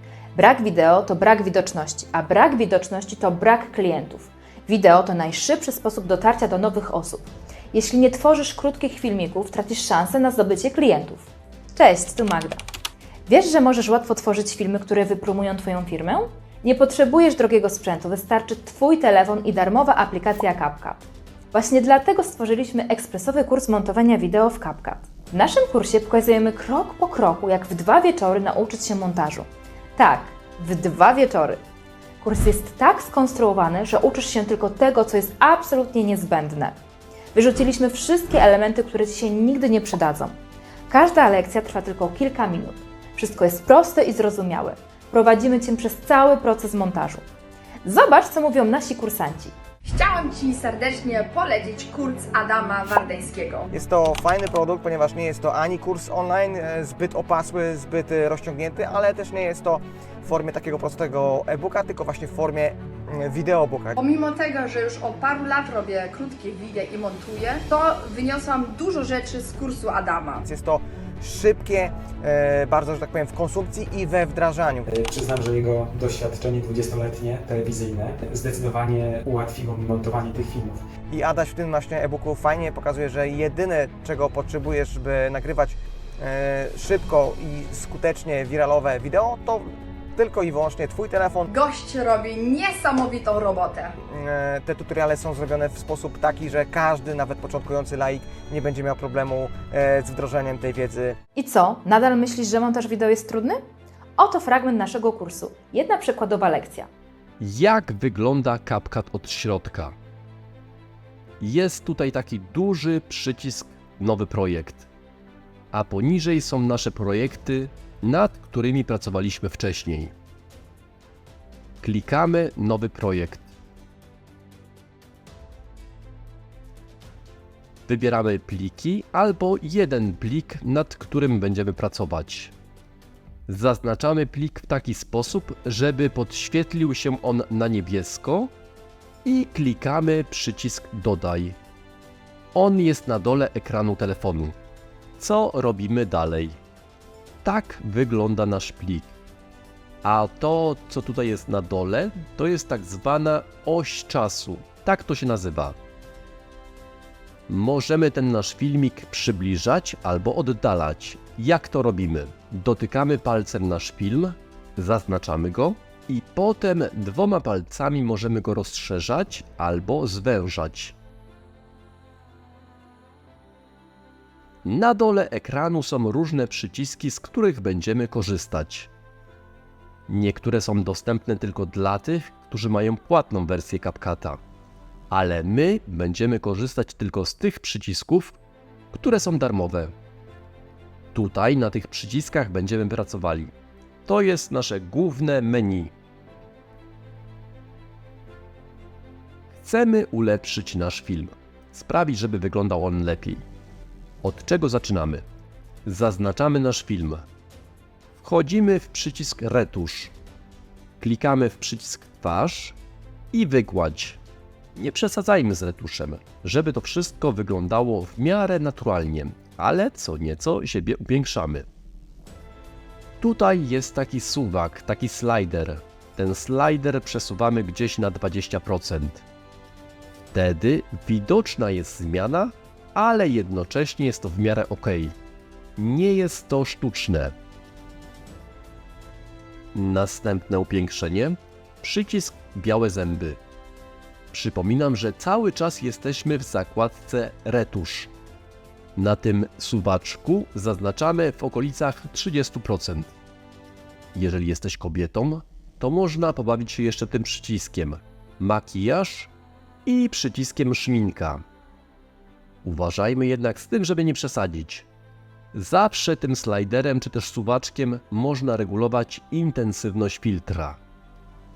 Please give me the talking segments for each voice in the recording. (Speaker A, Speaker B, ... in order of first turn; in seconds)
Speaker A: 0.3-12.6, 13.3-31.6, 32.2-36.8, 37.3-40.4, 40.9-47.2, 47.8-49.6, 101.3-103.6, 104.2-106.9
Speaker B: 49.9-53.7, 64.0-70.4, 91.5-94.0
Speaker C: 53.7-64.0, 70.4-74.9, 81.1-91.5, 94.0-101.2
Speaker D: 74.9-80.8
Speaker E: 107.4-110.0, 111.4-114.9, 115.7-120.1, 121.8-123.5, 127.9-132.5, 133.5-138.5, 139.2-141.6, 142.6-144.6, 145.2-146.6, 147.4-149.1, 150.0-155.8, 157.5-170.9, 174.7-178.9, 180.1-184.4, 185.1-188.4, 188.9-189.9, 191.1-193.5, 194.1-195.9, 199.6-203.4, 204.2-205.2, 205.8-207.2, 208.2-210.1, 211.0-212.8, 213.3-214.2, 214.8-221.7, 223.2-229.2, 230.3-235.2, 235.8-237.3, 239.7-243.4, 244.3-248.1, 249.0-253.2, 254.1-259.3, 259.9-261.4, 262.6-264.9, 265.5-270.8